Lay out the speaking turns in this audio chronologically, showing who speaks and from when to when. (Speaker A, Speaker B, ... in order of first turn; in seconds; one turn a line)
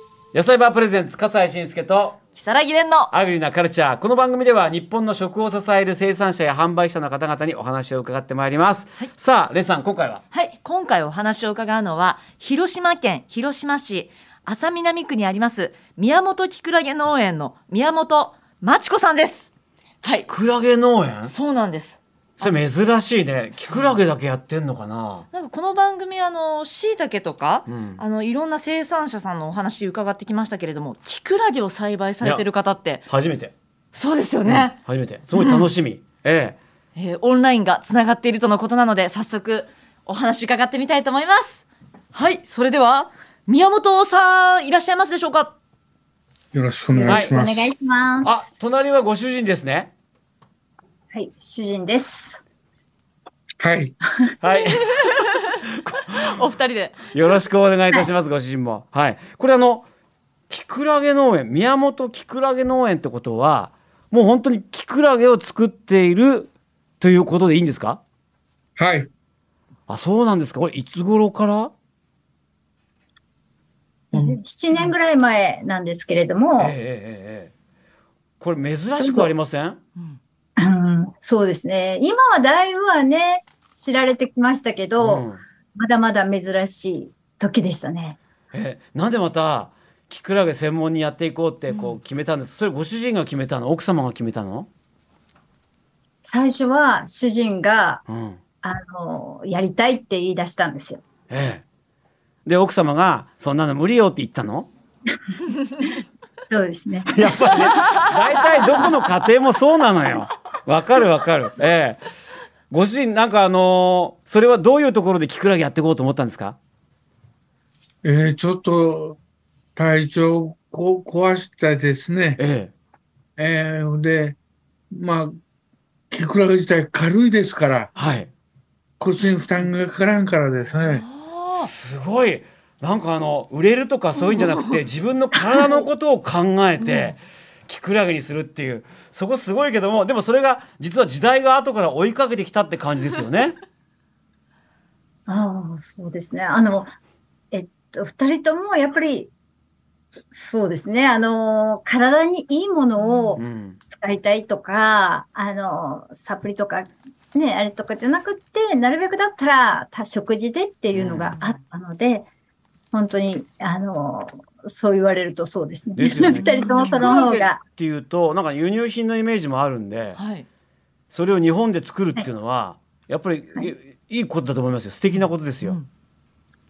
Speaker A: 0.3-2.2
Speaker B: 2.4-3.1
Speaker A: 3.1-10.2
Speaker B: 10.3-19.5
Speaker A: 20.0-21.3
Speaker B: 21.3-22.6
Speaker A: 22.4-25.2
Speaker B: 23.7-24.0
Speaker B: 25.3-33.0
Speaker A: 27.7-28.0
Speaker A: 33.1-33.5
Speaker B: 33.9-34.8
Speaker A: 34.5-36.6
Speaker B: 35.3-35.7
Speaker B: 37.0-45.5
Speaker C: 46.5-47.7
Speaker D: 46.9-48.4
Speaker A: 47.0-47.3
Speaker A: 48.2-49.9
Speaker D: 51.1-52.4
Speaker C: 53.6-54.0
Speaker A: 54.4-55.0
Speaker B: 54.8-57.4
Speaker A: 55.7-56.2
Speaker A: 57.1-59.9
Speaker A: 60.5-68.0
Speaker C: 68.8-69.1
Speaker A: 69.9-71.7
Speaker C: 74.1-74.4
Speaker D: 74.1-76.7
Speaker A: 76.6-77.5
Speaker A: 78.4-79.8
Speaker D: 79.0-79.3
Speaker D: 80.6-88.2
Speaker A: 85.0-85.4
Speaker A: 88.5-94.7
Speaker B: 91.7-92.0
Speaker D: 96.2-98.0
Speaker A: 98.1-98.4
Speaker D: 98.6-101.0
Speaker A: 101.3-101.6
Speaker A: 102.4-104.7
Speaker D: 106.5-108.0
Speaker A: 107.1-112.0
Speaker A: 112.7-116.6
Speaker C: 118.0-119.2
Speaker C: 119.8-122.4
Speaker A: 122.4-122.7
Speaker C: 123.4-124.4
Speaker C: 124.9-125.4
Speaker C: 126.1-127.9
Speaker A: 128.0-128.3
Speaker C: 129.0-131.0
Speaker B: 130.8-131.7
Speaker A: 131.5-143.6
Speaker B: 134.3-134.8
Speaker D: 135.6-135.8
Speaker B: 136.8-137.1
Speaker D: 145.3-146.9
Speaker D: 147.5-149.3
Speaker D: 150.3-162.3
Speaker B: 153.0-153.4
Speaker A: 153.4-153.8
Speaker A: 160.9-161.4
Speaker B: 161.3-161.6
Speaker D: 162.9-167.6
Speaker A: 165.9-170.2
Speaker B: 166.2-167.3
Speaker B: 170.1-170.4
Speaker A: 171.1-175.8
Speaker B: 175.6-175.9